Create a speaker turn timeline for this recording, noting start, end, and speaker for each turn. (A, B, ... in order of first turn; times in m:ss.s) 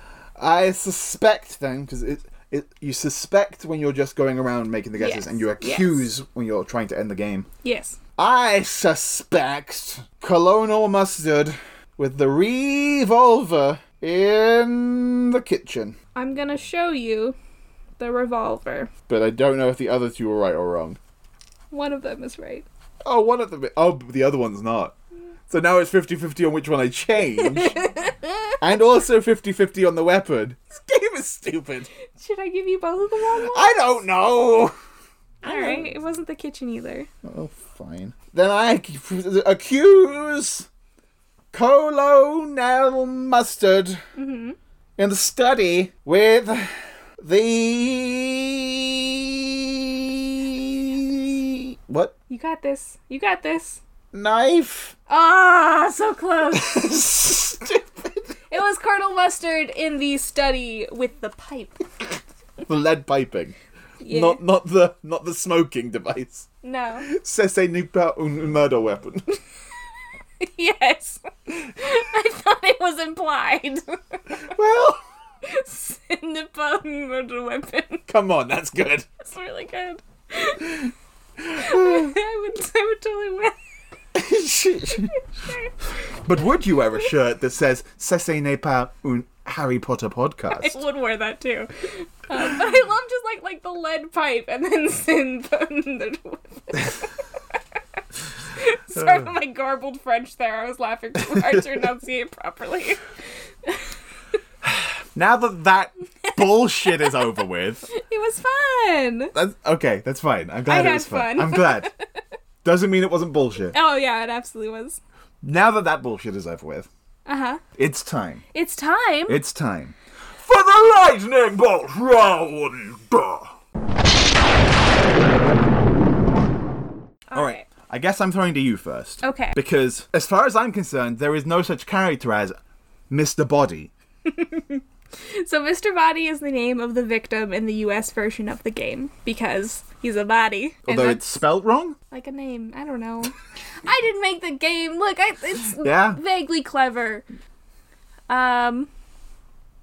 0:00.4-0:07.5 A
0:05.0-0:06.0 B
0:07.6-0:08.0 B
0:08.2-0:16.0 A
0:16.2-0:17.4 B
0:18.0-0:18.9 B
0:19.1-0:21.0 A
0:21.7-0:22.7 B
0:23.0-0:24.9 A
0:25.5-0:27.8 A
0:27.4-0:28.3 B
0:28.6-0:31.9 A
0:32.2-0:33.9 B
0:33.5-0:34.7 A
0:35.4-0:35.9 A
0:35.4-0:37.1 B
0:37.2-0:40.7 A
0:41.5-0:44.0 A
0:44.2-0:44.6 B
0:45.0-0:52.1 A
0:52.3-0:53.8 B
0:54.1-0:54.9 A
0:55.1-0:56.9 B
0:56.6-0:58.1 A
0:58.5-1:01.9 B
1:02.7-1:03.5 A
1:04.0-1:04.4 B
1:04.1-1:06.5 A
1:06.6-1:07.1 B
1:07.0-1:09.4 A
1:10.4-1:14.2 B
1:14.5-1:15.0 A
1:15.4-1:18.0 B
1:18.1-1:19.1 A
1:19.2-1:20.9 B
1:21.5-1:22.1 A
1:21.6-1:23.6 B
1:24.2-1:25.1 A
1:25.2-1:25.7 B
1:26.2-1:30.8 A
1:30.5-1:37.1 B
1:38.5-1:43.0 B
1:44.6-1:47.9 A
1:46.9-1:47.1 B
1:47.9-1:49.3 B
1:49.3-1:51.9 A
1:50.7-1:52.0 B
1:52.6-1:53.8 A
1:53.7-1:55.0 B
1:55.4-1:56.9 A
1:57.3-1:57.6 B
1:57.8-1:58.4 A
1:58.5-1:59.4 B
1:59.3-2:03.5 A
2:07.3-2:07.6 B
2:07.3-2:12.6 A
2:09.2-2:09.6 B
2:13.1-2:13.9 A
2:14.3-2:21.3 B
2:20.9-2:22.0 A
2:22.1-2:27.2 B
2:25.8-2:26.2 A
2:28.3-2:28.9 B